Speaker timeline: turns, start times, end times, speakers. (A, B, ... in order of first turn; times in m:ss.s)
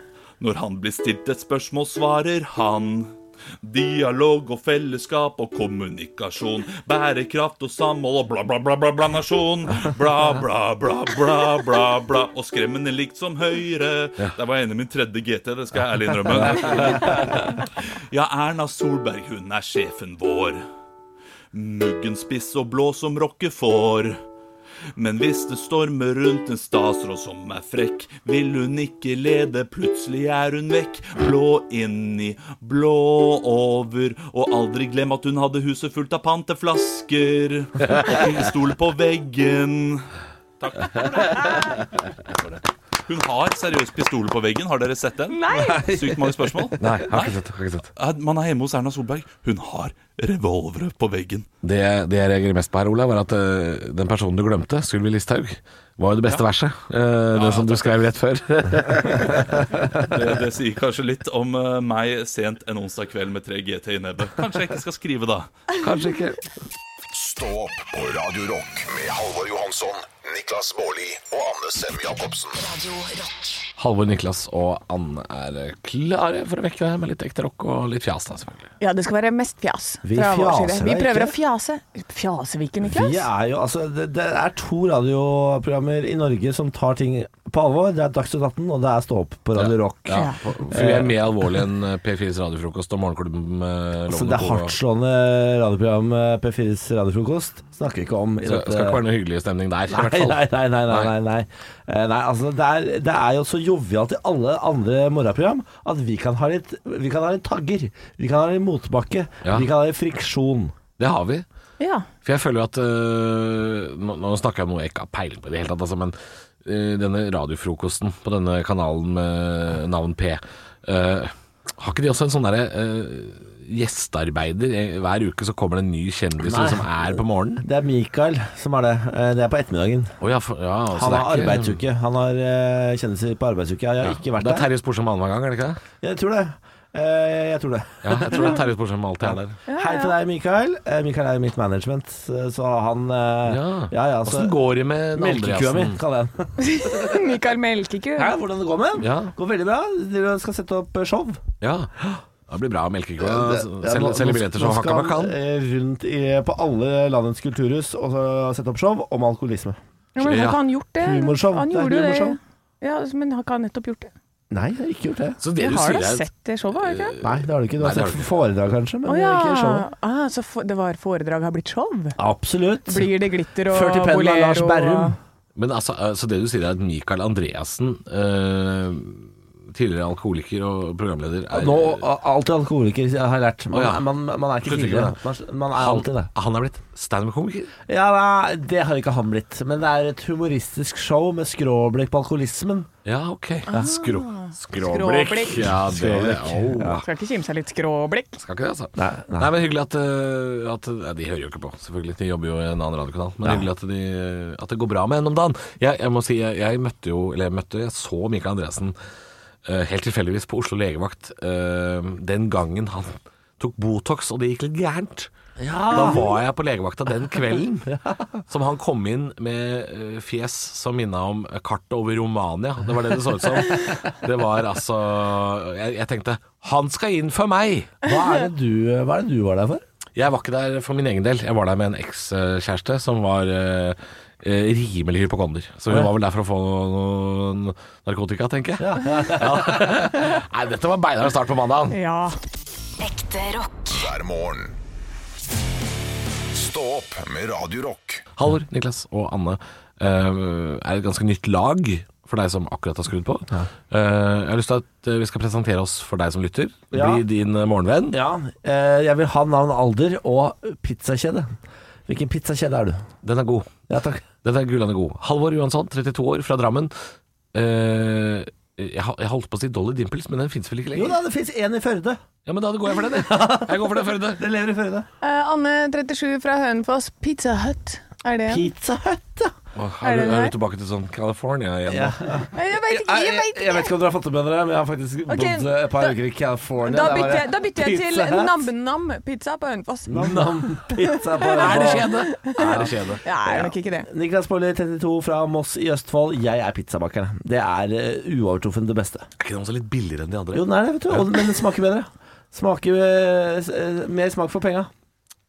0:00.4-0:20.6 A
0:21.5-0:24.2 A
0:25.0-0:40.1 A
0:40.6-0:47.4 A
0:45.3-0:45.9 B
0:45.5-0:46.5 C
0:46.8-0:47.9 D
0:48.0-0:51.5 A
0:51.6-0:59.6 D
0:57.3-0:58.0 A
1:00.0-1:05.5 A
1:05.8-1:06.4 D
1:07.1-1:12.6 E
1:12.6-1:13.7 F
1:13.8-1:18.7 D
1:18.8-1:23.3 B
1:20.0-1:21.3 C
1:22.8-1:31.2 C
1:29.6-1:34.8 D
1:30.1-1:30.4 B
1:34.1-1:39.0 C
1:38.4-1:41.1 D
1:39.9-1:50.8 C
1:51.0-1:51.5 D
1:51.8-1:52.1 B
1:52.2-2:07.6 D
2:06.4-2:10.2 C
2:10.2-2:11.8 D
2:10.9-2:14.7 C
2:14.0-2:15.8 D
2:16.0-2:18.6 C
2:18.0-2:19.6 D
2:19.2-2:24.6 C
2:19.7-2:20.1 B
2:23.5-2:26.0 D
2:25.2-2:27.3 C
2:26.6-2:28.3 B
2:28.2-2:31.5 C
2:29.0-2:29.3 D
2:31.6-2:35.4 D
2:33.2-2:39.8 C
2:40.2-2:44.1 B
2:40.2-2:40.6 D
2:41.0-2:42.4 C
2:44.5-2:45.4 C
2:45.4-2:48.3 D
2:45.6-2:47.2 B
2:47.2-2:49.8 C
2:49.1-2:52.2 B
2:52.2-2:53.1 C
2:52.9-2:55.2 B
2:53.7-2:55.2 C
2:55.6-3:02.0 D
3:01.5-3:06.3 C
3:03.7-3:04.0 D
3:04.6-3:05.2 D
3:05.7-3:07.7 D
3:07.9-3:12.9 C
3:13.0-3:17.0 D
3:13.7-3:15.7 B
3:15.7-3:17.0 C
3:17.0-3:18.3 B
3:18.4-3:29.0 D
3:19.0-3:19.5 C
3:29.6-3:35.3 D
3:35.6-3:36.3 C
3:35.9-3:48.0 D
3:37.9-3:38.4 C
3:48.0-3:49.8 C
3:50.2-4:02.0 D
3:58.8-4:00.1 C
4:01.9-4:02.4 B
4:03.0-4:04.0 F
4:03.9-4:04.8 E
4:06.5-4:08.2 E
4:08.4-4:18.2 D
4:16.9-4:17.2 C
4:18.1-4:21.6 C
4:22.1-4:23.1 C
4:23.2-4:23.7 D
4:23.9-4:24.3 C
4:24.4-4:26.9 D
4:27.5-4:31.2 D
4:30.9-4:32.2 C
4:32.5-4:34.4 D
4:33.1-4:35.1 C
4:35.2-4:38.6 B
4:38.5-4:39.5 C
4:39.8-4:42.2 D
4:40.0-4:40.5 B
4:41.9-4:48.6 C
4:42.6-4:43.9 B
4:45.3-4:46.2 B
4:46.8-4:54.1 B
4:50.1-4:59.3 C
4:51.4-4:53.2 D
4:59.4-5:01.4 D
5:00.5-5:04.9 C